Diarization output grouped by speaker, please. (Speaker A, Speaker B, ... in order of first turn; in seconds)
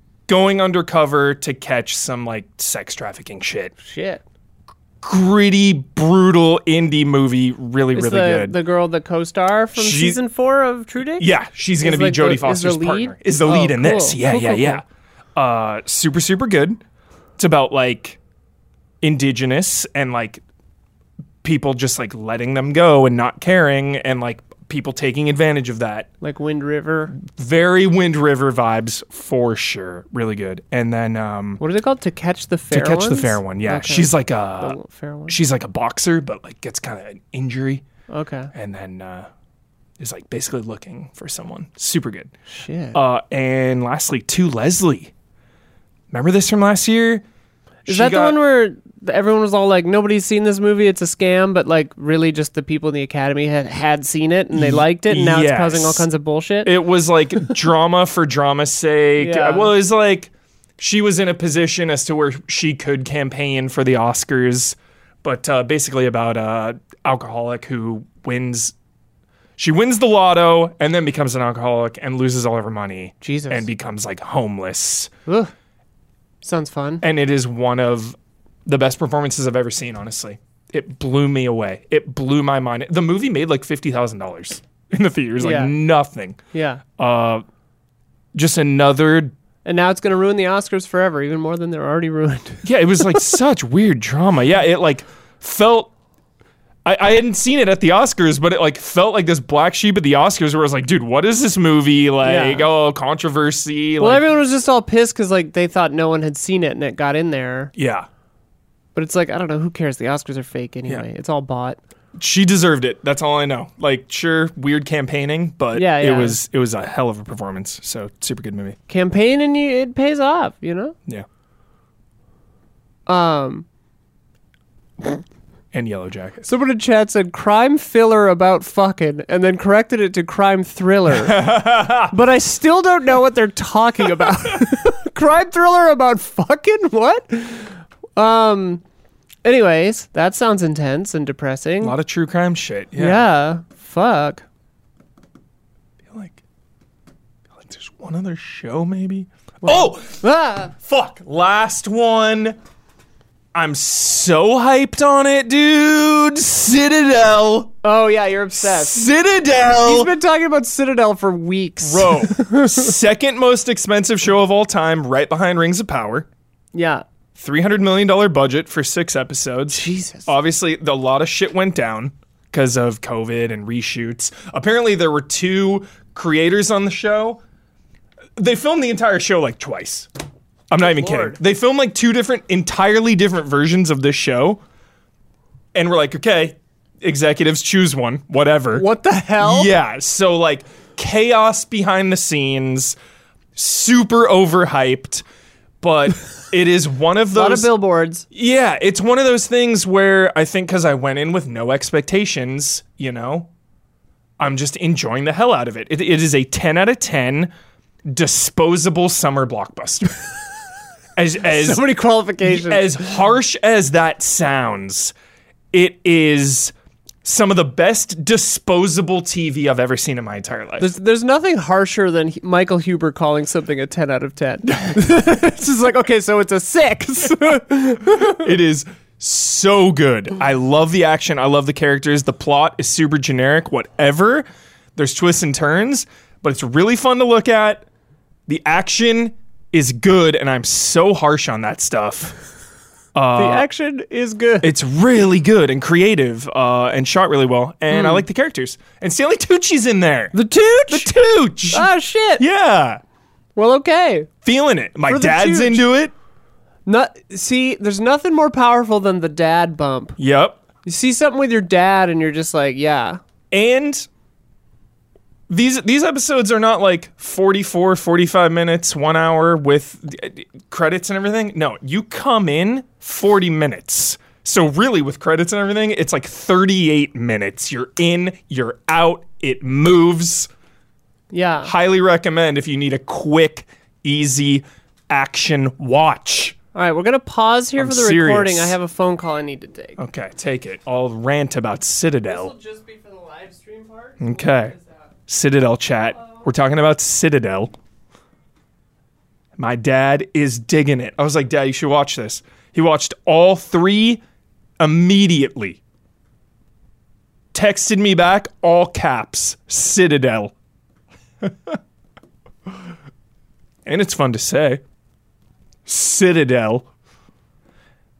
Speaker A: 0.3-3.7, 5.0-8.6, 9.8-10.2, 11.2-14.8, 15.4-16.8, 17.4-18.2, 19.0-20.4, 21.4-26.1, 27.1-31.6, 32.7-34.8, 35.3-37.9, 38.5-39.3, 40.0-42.3, 42.9-45.1, 46.1-47.2, 47.9-48.4, 54.5-56.0, 56.6-68.7, 69.6-75.1, 77.0-87.4, 88.3-89.3, 92.6-95.9, 96.8-104.2, 107.8-108.1, 112.2-118.8, 125.7-126.5, 131.1-132.1, 141.8-143.3, 146.1-146.4, 147.5-150.2, 150.8-152.6, 153.5-157.7, 158.6-160.1, 161.8-166.3, 167.4-177.4, 178.4-180.1, 180.7-184.6, 185.7-188.8, 189.4-193.0, 193.6-195.2, 195.8-197.7, 198.3-203.5, 204.4-207.5, 208.1-210.3, 211.2-211.8, 212.4-215.1, 215.7-216.7, 217.2-220.9, 228.1-234.4, 235.0-237.8, 238.5-242.4, 243.2-243.7, 244.6-250.3, 250.9-253.0, 254.4-256.1, 260.2-260.6, 263.5-264.1, 265.5-280.5, 281.6-286.6, 287.8-288.8, 290.0-292.5, 294.2-294.8, 295.3-297.7, 299.6-304.2, 304.8-305.8, 307.5-310.5, 311.4-311.8, 313.9-314.8, 315.9-316.9
Speaker B: 3.8-4.2, 8.0-11.3, 11.8-14.8, 26.2-27.1, 31.6-35.4, 38.1-38.5, 42.5-43.0, 47.9-56.7, 59.2-59.7, 73.2-73.7, 76.4-77.0, 85.4-85.7, 86.5-86.8, 89.7-93.2, 102.2-102.7, 104.0-107.7, 109.0-111.8, 115.8-116.4, 118.9-121.0, 123.1-123.7, 126.5-138.8, 139.4-142.0, 143.0-144.4, 149.6-150.7, 157.8-159.1, 159.8-163.0, 166.7-167.0, 169.7-170.3, 180.8-181.4, 188.7-189.7, 197.3-198.2, 211.4-213.0, 220.8-228.5, 243.4-244.7, 247.9-248.2, 250.3-251.1, 251.7-252.4, 253.6-254.3, 255.1-255.8, 256.9-260.2, 260.8-263.2, 281.3-281.7, 286.8-290.0, 292.2-295.1